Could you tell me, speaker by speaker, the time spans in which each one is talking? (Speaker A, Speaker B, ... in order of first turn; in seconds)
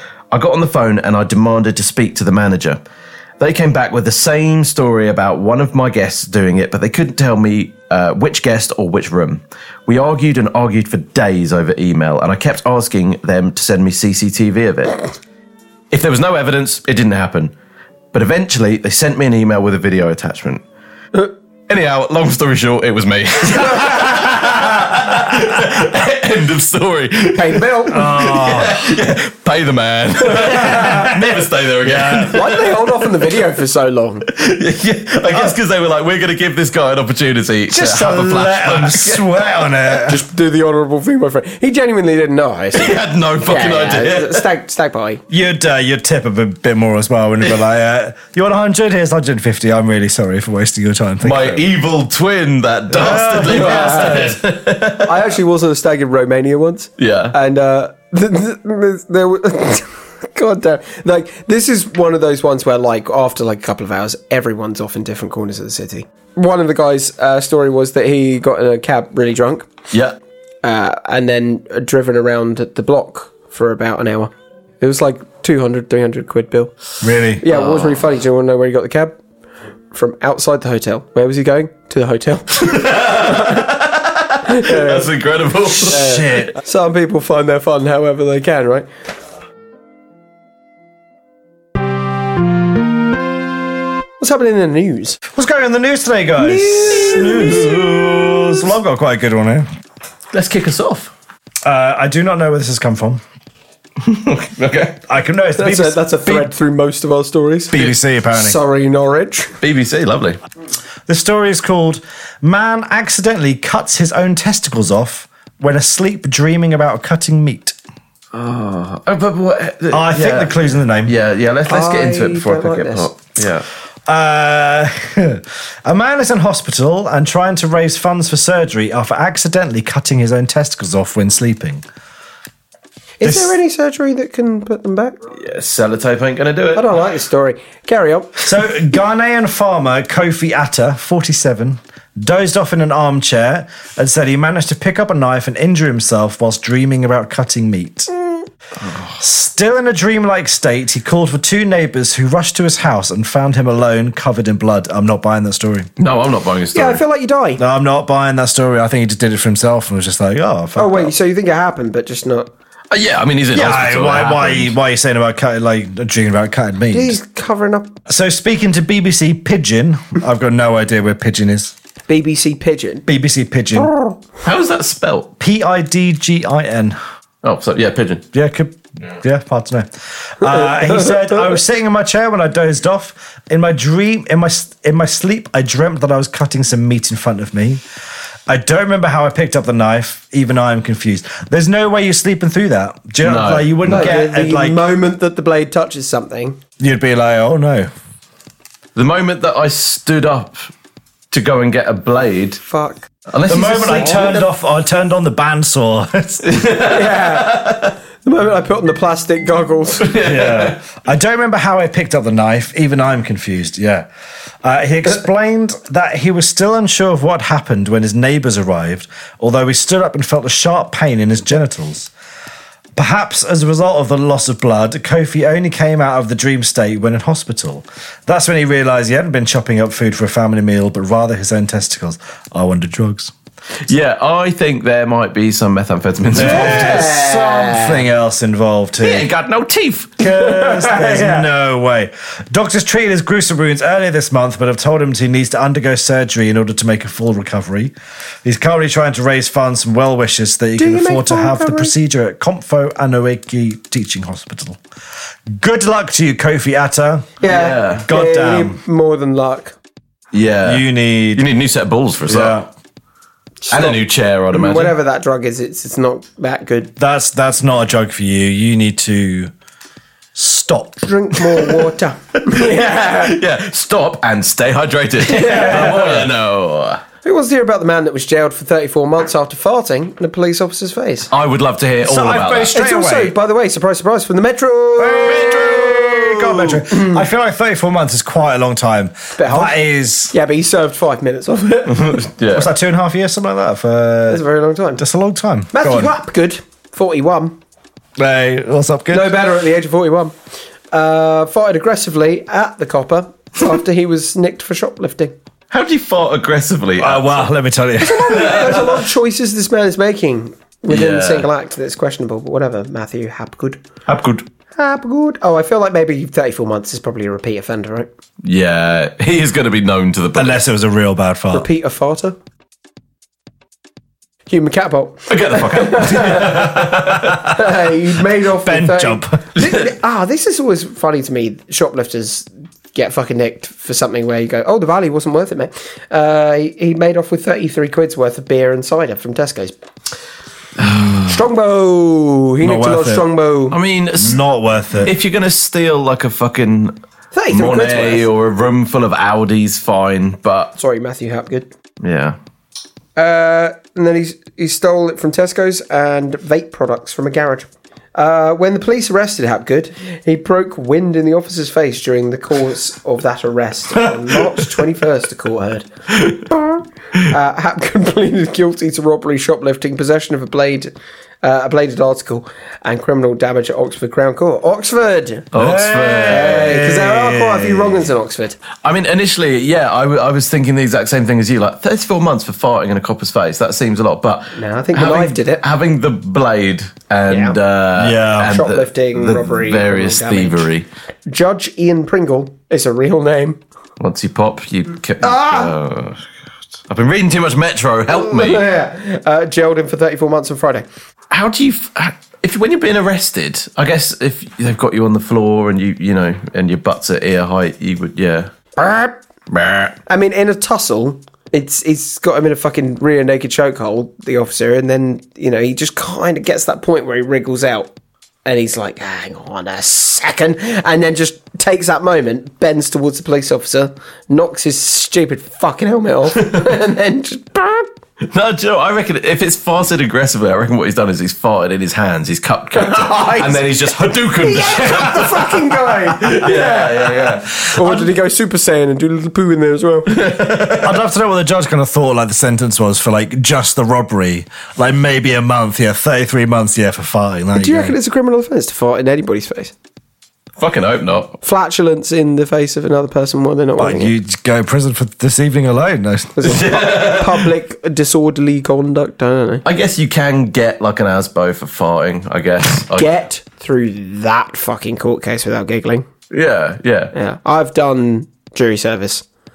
Speaker A: 0.3-2.8, 3.4-15.0, 15.9-17.5, 18.1-20.6, 21.7-32.9, 34.3-39.7, 42.7-44.5, 51.2-55.3, 57.0-57.4, 69.9-70.2, 77.5-78.0, 82.6-86.1, 100.3-101.1, 104.0-105.0, 109.6-110.4, 118.3-123.7, 135.3-136.9, 148.9-149.2, 156.0-157.0, 162.9-164.8, 174.4-175.3, 177.4-178.2, 193.2-194.2, 198.9-200.7, 201.3-202.6, 203.3-204.3, 206.4-207.9, 210.0-210.8, 233.9-237.2, 239.0-240.2, 257.4-258.1, 260.3-262.6, 263.7-264.9, 272.5-277.0, 281.3-282.8, 285.2-285.8, 291.9-292.7, 305.7-307.5, 308.4-308.8, 310.9-311.5, 314.1-314.4, 318.4-320.6, 325.3-327.5, 329.6-329.9, 340.8-341.3, 343.7-344.4, 345.0-347.0, 347.5-350.7, 352.0-352.4, 375.5-376.9, 378.8-390.9, 394.0-396.2, 396.9-398.7, 401.3-408.5, 409.5-410.0, 428.2-437.7, 440.1-441.0, 450.6-451.4, 456.4-457.5, 459.6-463.1, 466.3-467.1
Speaker B: 23.8-24.2, 27.4-28.1, 30.4-31.1, 32.3-34.3, 39.9-45.2, 53.4-69.7, 70.6-76.7, 77.4-79.2, 79.9-83.7, 84.5-85.1, 85.8-88.9, 94.2-95.2, 96.4-98.4, 105.6-109.6, 121.7-123.1, 133.2-135.2, 136.7-138.5, 156.7-157.6, 160.8-162.5, 166.9-168.0, 172.1-173.1, 180.5-181.4, 193.8-196.6, 202.6-203.1, 203.7-204.5, 206.8-210.2, 236.4-238.1, 240.2-241.5, 250.8-251.9, 257.4-259.8, 263.6-266.9, 271.0-273.4, 275.2-276.3, 277.2-281.3, 282.7-287.2, 289.4-289.8, 290.3-292.2, 294.3-295.0, 295.7-297.6, 299.1-300.3, 300.9-305.3, 308.0-313.8, 314.8-318.1, 321.5-322.4, 324.5-339.8, 341.2-343.8, 347.3-348.3, 350.8-351.7, 353.2-375.5, 376.3-378.6, 384.6-385.6, 387.3-387.6, 388.4-390.7, 391.3-393.6, 395.2-395.7, 398.1-400.9, 408.8-409.2, 410.1-417.9, 418.4-427.9, 432.7-433.7, 434.3-440.3, 447.6-449.7, 451.4-454.1, 456.4-459.6, 462.9-466.1, 467.1-469.2
Speaker C: 27.9-28.9, 30.7-32.5, 37.7-40.2, 45.3-51.6, 52.9-54.4, 77.0-77.4, 85.9-86.5, 95.3-99.7, 101.7-103.2, 105.1-106.5, 107.7-108.6, 111.1-117.8, 119.9-121.1, 124.1-131.8, 133.2-133.6, 138.4-148.1, 149.2-155.9, 157.6-161.1, 163.5-167.2, 168.1-171.7, 173.1-173.9, 175.4-177.0, 178.3-187.8, 188.5-194.8, 196.8-197.9, 203.5-206.4, 210.2-214.1, 214.6-222.1, 223.0-233.3, 236.3-239.3, 240.2-247.9, 248.4-254.8, 255.5-257.4, 258.0-258.8, 260.6-261.4, 262.3-262.7, 267.0-269.5, 270.4-271.1, 275.5-276.2, 282.0-283.3, 285.0-290.3, 292.5-294.4, 295.0-296.1, 298.2-299.4, 307.0-308.9, 320.4-321.7, 326.4-327.6, 328.6-329.4, 340.8-341.2, 342.6-343.2, 344.2-345.1, 375.6-378.1, 388.0-388.5, 437.8-438.1, 440.8-447.9, 453.8-456.6